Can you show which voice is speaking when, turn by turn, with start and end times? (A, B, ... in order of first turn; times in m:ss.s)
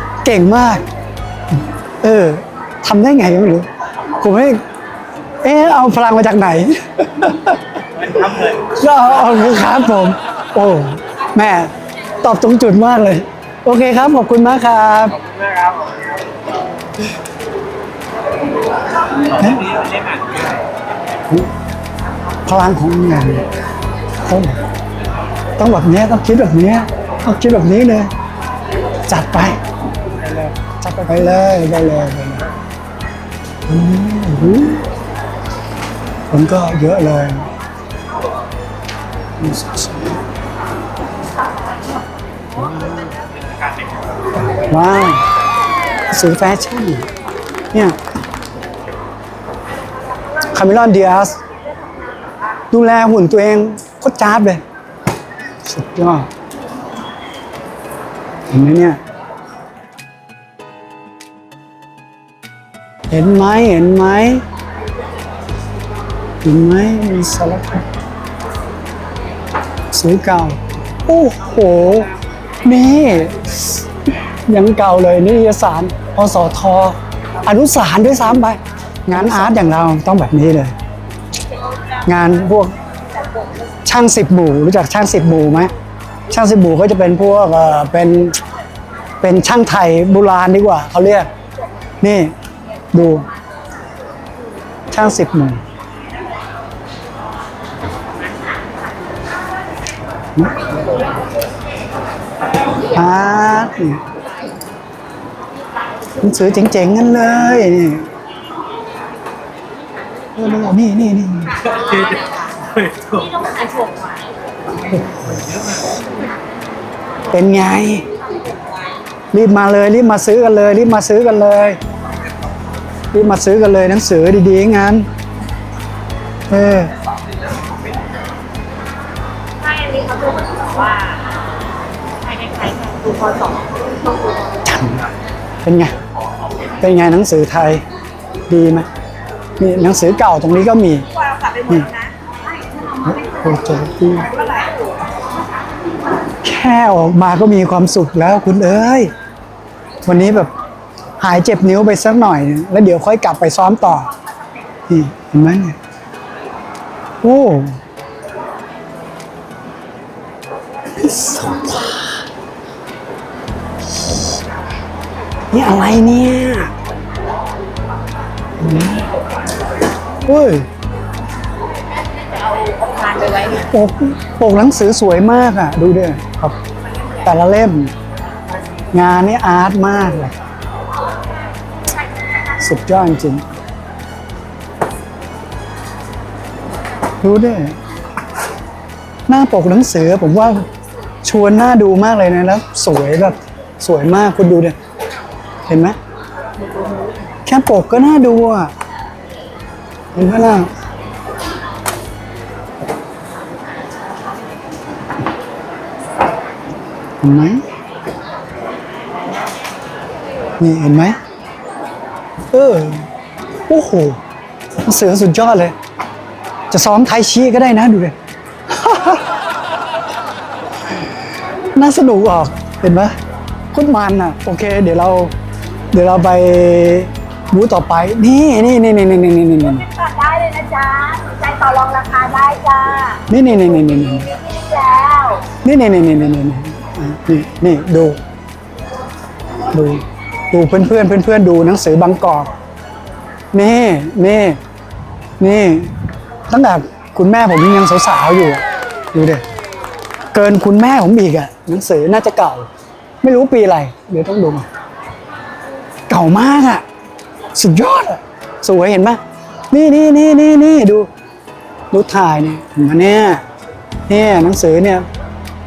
0:00.2-0:00.8 A
0:02.0-0:03.7 A
0:04.2-0:04.6 A
0:05.4-0:07.6 A
0:07.9-0:08.7 B
0:08.8-0:11.7 A
0:12.2-0:15.1 A
0:15.1-0:16.1 B
0:19.3-0:21.2 B
0:22.4-0:23.4 A
0:24.2-0:24.6 A
0:25.6-0:28.1 A
0:29.1-0:29.6 A
0:30.2-0:32.4 A
0:33.7-0:34.8 A
0:36.3-0:37.5 A
0:39.4-0:40.2 A
0:42.5-0:43.1 A
0:44.6-0:45.2 A
0:46.1-0:47.0 A
0:50.5-0:51.4 A
0:52.7-0:54.6 A
0:55.6-0:56.3 A
0:58.5-0:59.0 A
1:03.1-1:04.4 A
1:06.4-1:07.8 A
1:09.9-1:12.1 A
1:12.6-1:13.9 A
1:14.5-1:20.7 A
1:22.0-1:22.7 A
1:23.8-1:25.7 A
1:26.3-1:28.4 A
1:29.2-1:31.3 A
1:32.0-1:32.3 A
1:32.9-1:33.2 A
1:34.9-1:35.6 A
1:40.4-1:40.7 A
1:42.9-1:44.0 A
1:46.2-1:48.0 A
1:50.3-1:51.6 A
1:51.8-1:53.3 B
1:53.2-1:54.2 C
1:55.0-1:55.3 A
1:57.3-1:58.0 A
1:59.3-2:01.8 A
2:03.1-2:05.1 A
2:06.5-2:06.9 A
2:09.6-2:11.2 C
2:12.2-2:13.7 C
2:14.6-2:15.0 A
2:15.6-2:15.9 A
2:16.8-2:17.8 A
2:18.5-2:18.9 A
2:19.6-2:21.0 A
2:21.4-2:22.1 C
2:23.0-2:24.3 A
2:26.4-2:29.1 A
2:30.0-2:30.5 A
2:31.2-2:34.1 A
2:34.9-2:35.8 A
2:37.2-2:37.8 A
2:41.0-2:42.2 A
2:45.5-2:46.7 A
2:48.6-2:49.0 A
2:50.2-2:50.7 A
2:52.6-2:53.5 C
2:53.6-2:56.6 A
2:57.2-2:57.9 A
2:58.9-3:00.3 A
3:02.6-3:03.4 A
3:07.2-3:07.8 A
3:09.3-3:10.7 A
3:11.2-3:14.7 A
3:15.7-3:16.0 A
3:17.4-3:18.7 A
3:20.1-3:20.7 A
3:27.2-3:27.6 A
3:30.6-3:31.2 A
3:32.5-3:33.0 A
3:33.7-3:34.2 A
3:34.8-3:35.7 A
3:36.7-3:38.1 A
3:38.7-3:39.2 A
3:41.8-3:43.1 A
3:43.7-3:45.3 A
3:45.9-3:49.8 A
3:49.8-3:53.2 C
3:53.3-3:54.3 A
3:54.3-3:55.4 C
3:55.6-3:58.2 A
3:59.7-4:02.5 A
4:03.5-4:04.6 A
4:05.4-4:05.9 A
4:06.5-4:08.6 A
4:09.1-4:09.4 A
4:10.3-4:12.7 A
4:13.2-4:14.6 A
4:16.1-4:16.8 A
4:17.5-4:19.2 A
4:19.7-4:21.1 A
4:21.9-4:23.4 A
4:24.1-4:25.0 A